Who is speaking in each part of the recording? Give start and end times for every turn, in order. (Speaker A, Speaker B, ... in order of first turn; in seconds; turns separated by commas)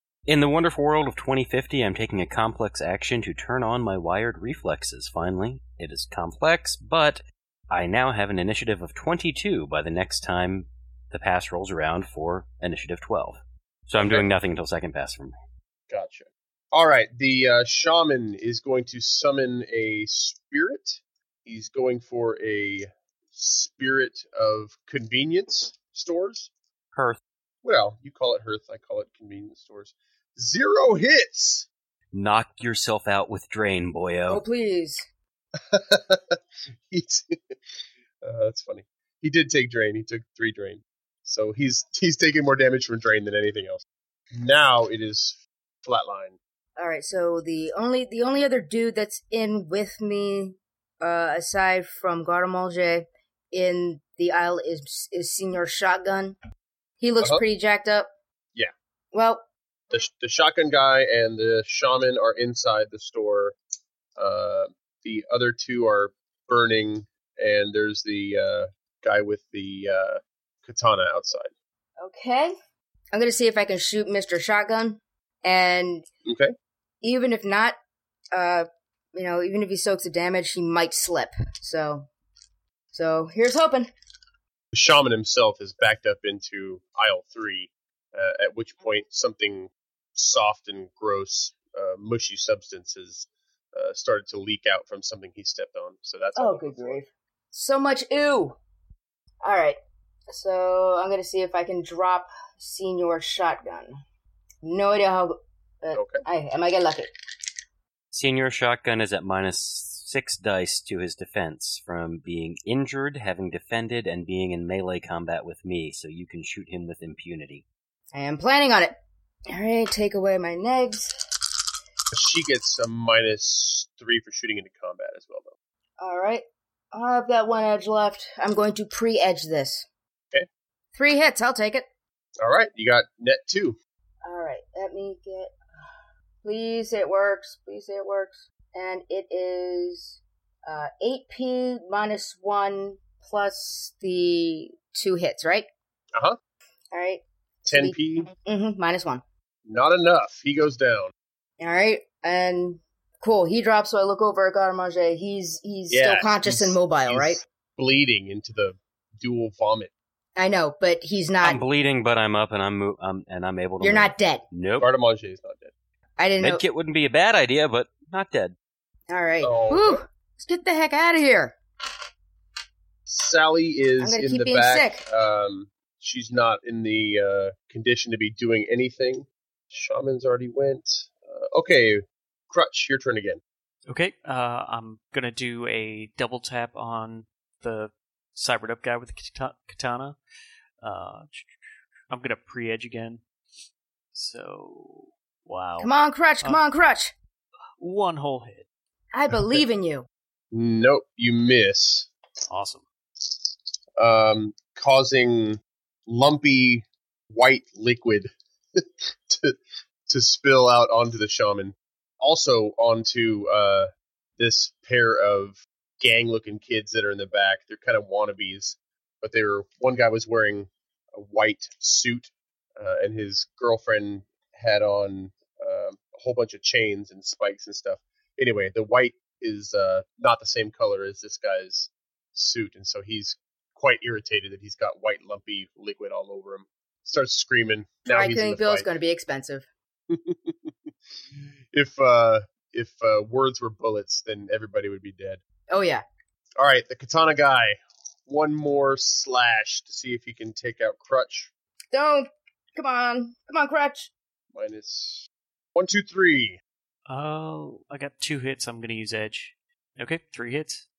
Speaker A: 0.3-15.3, Speaker B: 14.0-14.3, Speaker B: 15.9-26.5, Speaker A: 26.9-27.2, Speaker B: 27.6-31.7, Speaker A: 32.1-34.4, Speaker C: 34.3-35.0, Speaker B: 35.6-37.5, Speaker B: 38.2-46.4, Speaker C: 46.8-56.4, Speaker C: 57.0-58.1, Speaker C: 59.1-59.4, Speaker B: 59.9-63.5, Speaker B: 64.2-71.5, Speaker C: 72.0-72.5, Speaker C: 73.1-76.1, Speaker B: 76.2-76.5, Speaker C: 77.0-77.8, Speaker C: 78.3-82.1, Speaker C: 82.9-83.9, Speaker B: 84.7-97.0, Speaker C: 96.4-98.6, Speaker C: 99.4-99.8, Speaker C: 100.3-104.0, Speaker C: 104.6-107.1, Speaker B: 105.9-106.2, Speaker A: 108.1-117.7, Speaker C: 118.1-119.0, Speaker C: 119.5-121.1, Speaker B: 122.1-125.5, Speaker C: 126.0-129.9, Speaker C: 130.9-131.8, Speaker B: 132.4-133.8, Speaker C: 134.2-135.9, Speaker C: 136.4-145.7, Speaker C: 146.9-149.2, Speaker B: 147.7-148.3, Speaker B: 149.7-151.1, Speaker C: 151.6-157.4, Speaker B: 155.9-159.9, Speaker C: 160.4-161.6, Speaker A: 161.4-164.9, Speaker C: 163.8-164.4, Speaker B: 164.8-165.7, Speaker C: 166.2-166.6, Speaker A: 166.4-168.6, Speaker C: 169.1-171.6, Speaker B: 169.4-170.0, Speaker B: 173.1-183.4, Speaker C: 174.0-175.0, Speaker D: 183.9-190.2, Speaker D: 190.8-193.2, Speaker D: 194.1-196.6, Speaker C: 195.8-197.1, Speaker D: 197.8-198.7, Speaker C: 199.1-200.1, Speaker B: 200.5-202.1, Speaker D: 202.5-202.8, Speaker B: 204.0-209.6, Speaker B: 210.1-238.9, Speaker C: 238.1-239.7, Speaker B: 240.1-245.4, Speaker C: 245.7-246.0, Speaker B: 246.6-251.5, Speaker C: 251.9-254.1, Speaker B: 254.5-256.6, Speaker D: 257.1-260.9